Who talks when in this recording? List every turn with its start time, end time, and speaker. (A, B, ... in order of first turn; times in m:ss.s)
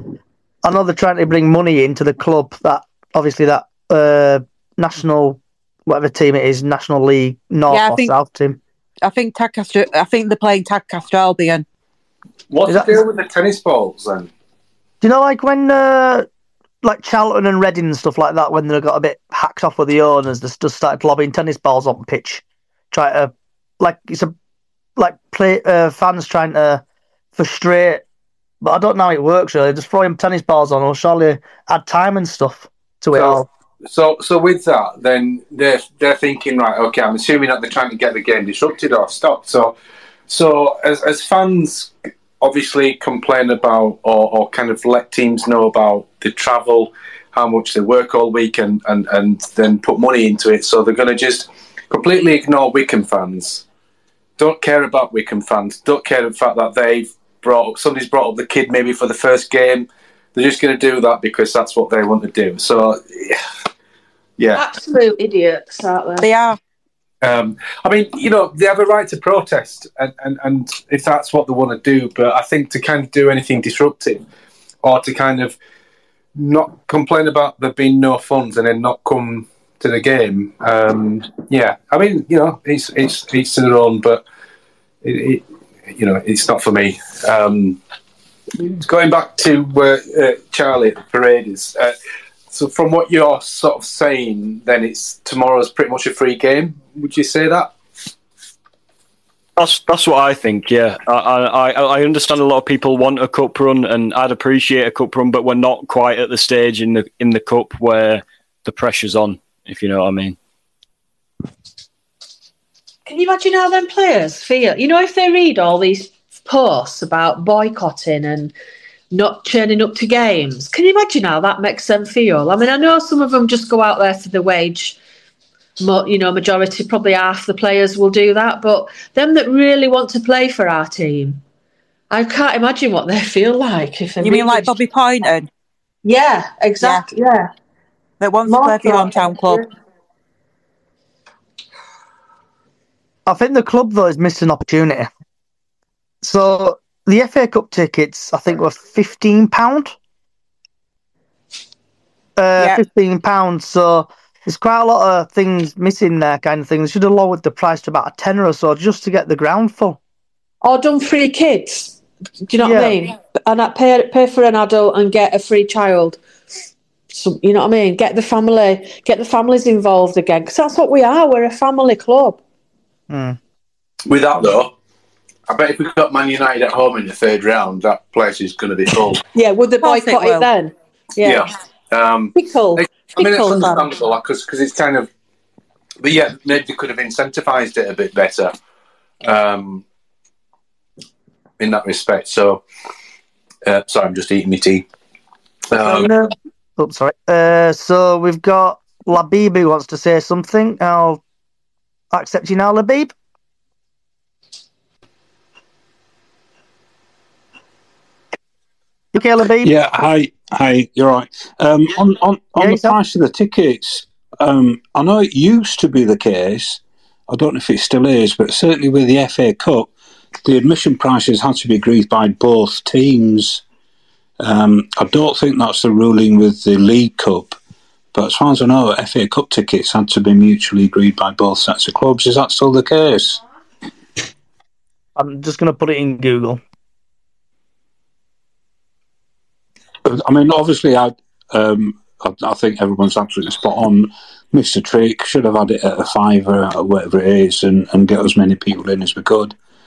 0:00.6-0:08.6 A
0:07.7-0:08.1 B
0:09.0-0:11.6 B
0:12.5-0:14.3 C
0:12.7-0:13.0 A
0:15.0-0:16.3 A
0:16.8-0:24.3 A
0:25.0-0:26.8 A
0:27.3-0:28.0 A
0:28.6-0:33.4 A
0:33.1-0:39.7 C
0:40.3-0:53.6 C
0:54.4-1:03.4 C
1:04.4-1:04.7 C
1:04.5-1:06.3 D
1:06.2-1:06.6 B
1:07.2-1:14.2 C
1:14.8-1:15.6 C
1:16.3-1:24.2 C
1:25.0-1:27.8 C
1:28.6-1:31.9 C
1:32.5-1:37.8 C
1:39.6-1:50.4 E
1:53.0-1:58.5 D
1:59.1-2:05.0 D
2:05.8-2:11.4 D
2:12.1-2:14.8 D
2:14.2-2:15.5 B
2:16.0-2:17.5 D
2:16.8-2:17.1 B
2:18.2-2:19.6 B
2:18.4-2:19.6 D
2:23.3-2:25.1 A
2:26.2-2:29.9 A
2:32.4-2:40.0 A
2:40.6-2:46.2 D
2:42.6-2:42.9 A
2:47.1-2:52.4 D
2:53.1-2:53.4 A
2:54.0-2:54.7 C
2:55.5-2:59.2 C
2:59.3-3:01.5 D
2:59.8-3:00.5 B
3:01.2-3:05.1 C
3:02.3-3:03.8 D
3:06.0-3:08.5 C
3:09.2-3:09.8 C
3:11.6-3:12.6 C
3:13.6-3:14.9 C
3:15.7-3:16.1 C
3:15.8-3:21.2 A
3:22.1-3:23.1 A
3:29.1-3:29.7 A
3:29.6-3:39.9 F
3:32.6-3:32.9 A
3:40.4-3:43.6 F
3:44.4-3:47.6 F
3:48.1-3:53.4 F
3:55.2-3:56.6 A
4:00.0-4:09.5 F